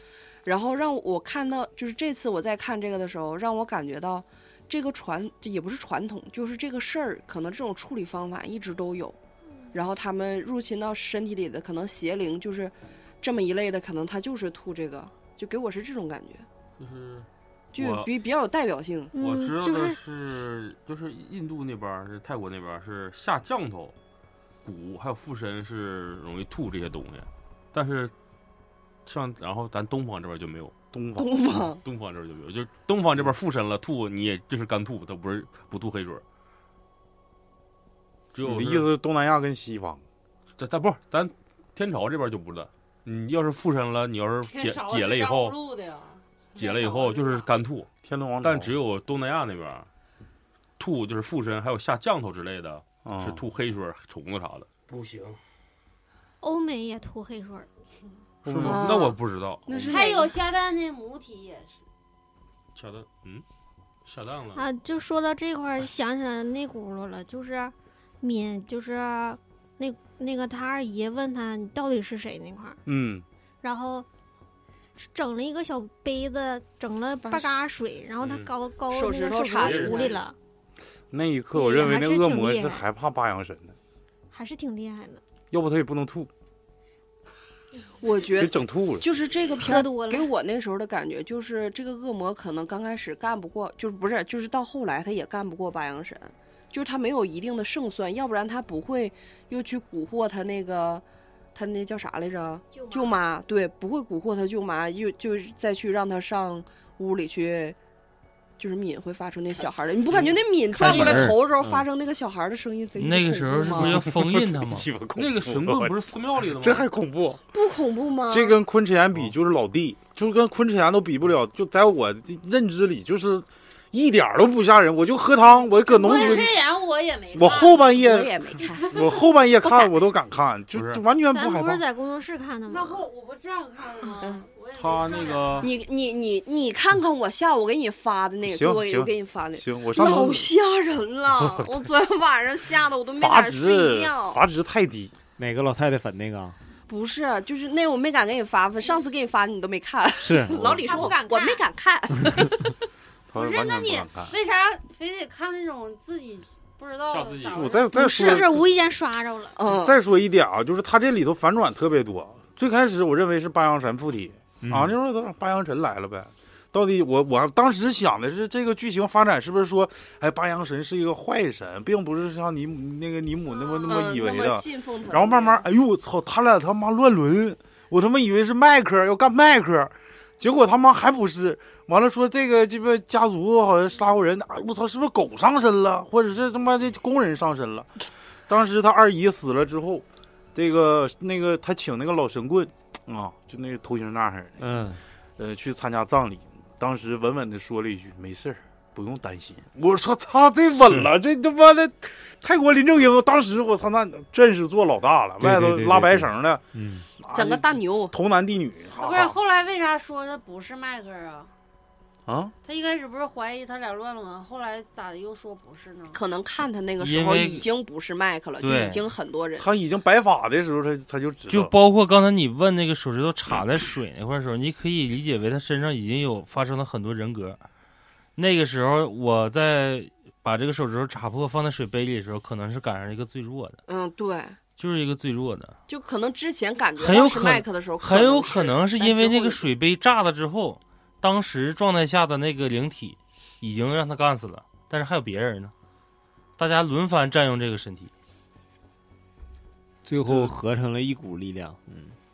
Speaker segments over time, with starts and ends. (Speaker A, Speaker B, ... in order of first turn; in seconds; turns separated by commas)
Speaker A: 0.5-9.2, Speaker A: 9.7-16.4, Speaker B: 16.8-18.1, Speaker A: 17.7-19.1, Speaker C: 19.1-20.0, Speaker B: 19.2-23.9, Speaker B: 24.6-28.1, Speaker B: 29.1-30.7, Speaker D: 30.9-31.3, Speaker A: 31.2-31.8, Speaker B: 31.7-36.2, Speaker B: 38.3-38.9, Speaker D: 38.4-40.0, Speaker B: 40.6-45.5, Speaker E: 44.4-47.5, Speaker B: 46.5-47.9, Speaker D: 48.0-48.7, Speaker B: 48.4-49.9, Speaker B: 50.8-55.4, Speaker D: 53.0-53.5, Speaker C: 56.4-57.7, Speaker D: 58.5-58.9, Speaker B: 58.5-60.1, Speaker A: 58.5-60.4, Speaker E: 59.9-61.8, Speaker B: 62.7-63.5, Speaker B: 64.0-64.6, Speaker C: 64.5-72.8, Speaker D: 72.8-73.2, Speaker C: 73.6-74.1, Speaker C: 75.0-80.3, Speaker B: 78.2-78.5, Speaker A: 78.9-80.2, Speaker B: 79.6-80.1, Speaker D: 81.1-83.8, Speaker C: 81.5-82.9, Speaker C: 84.3-85.2, Speaker D: 85.5-86.3, Speaker A: 88.0-101.0, Speaker D: 88.4-89.1, Speaker C: 89.6-90.3, Speaker A: 101.5-107.8, Speaker C: 102.7-103.2, Speaker A: 108.6-114.0, Speaker F: 110.7-111.7, Speaker D: 110.9-111.2, Speaker G: 113.0-114.9, Speaker D: 113.7-117.4, Speaker B: 115.1-116.9, Speaker A: 117.5-118.6, Speaker D: 118.3-126.6, Speaker E: 125.9-128.0, Speaker A: 126.0-126.5, Speaker D: 127.3-128.3, Speaker A: 128.0-129.1, Speaker D: 128.8-131.8, Speaker B: 130.7-131.0, Speaker C: 131.3-133.1, Speaker E: 132.7-135.7, Speaker B: 134.7-135.7, Speaker A: 135.6-144.4, Speaker D: 138.4-140.5, Speaker D: 141.4-141.7, Speaker D: 143.1-145.1, Speaker F: 145.4-146.6, Speaker A: 146.9-152.7, Speaker F: 150.2-150.8, Speaker C: 150.6-151.6, Speaker D: 153.3-154.3, Speaker E: 153.3-158.4, Speaker B: 157.1-157.8, Speaker D: 157.5-158.7, Speaker C: 157.9-159.6, Speaker A: 158.2-158.4, Speaker A: 159.6-159.9, Speaker D: 159.6-187.9, Speaker F: 164.6-165.0, Speaker A: 173.6-175.6, Speaker D: 188.5-194.6, Speaker F: 194.6-195.0, Speaker D: 195.4-206.6, Speaker F: 200.8-201.1, Speaker F: 205.4-207.1, Speaker D: 207.2-209.4, Speaker A: 207.3-208.2, Speaker E: 209.0-211.5, Speaker D: 212.3-212.5, Speaker E: 212.6-216.2, Speaker A: 216.1-219.7, Speaker G: 217.0-217.7, Speaker G: 218.6-219.0, Speaker D: 219.6-221.7, Speaker G: 221.5-227.6, Speaker G: 228.4-233.8, Speaker A: 233.9-234.6, Speaker G: 234.8-235.8, Speaker A: 235.9-239.7, Speaker G: 237.0-245.7, Speaker G: 246.6-248.1, Speaker F: 250.1-252.2, Speaker D: 250.3-250.5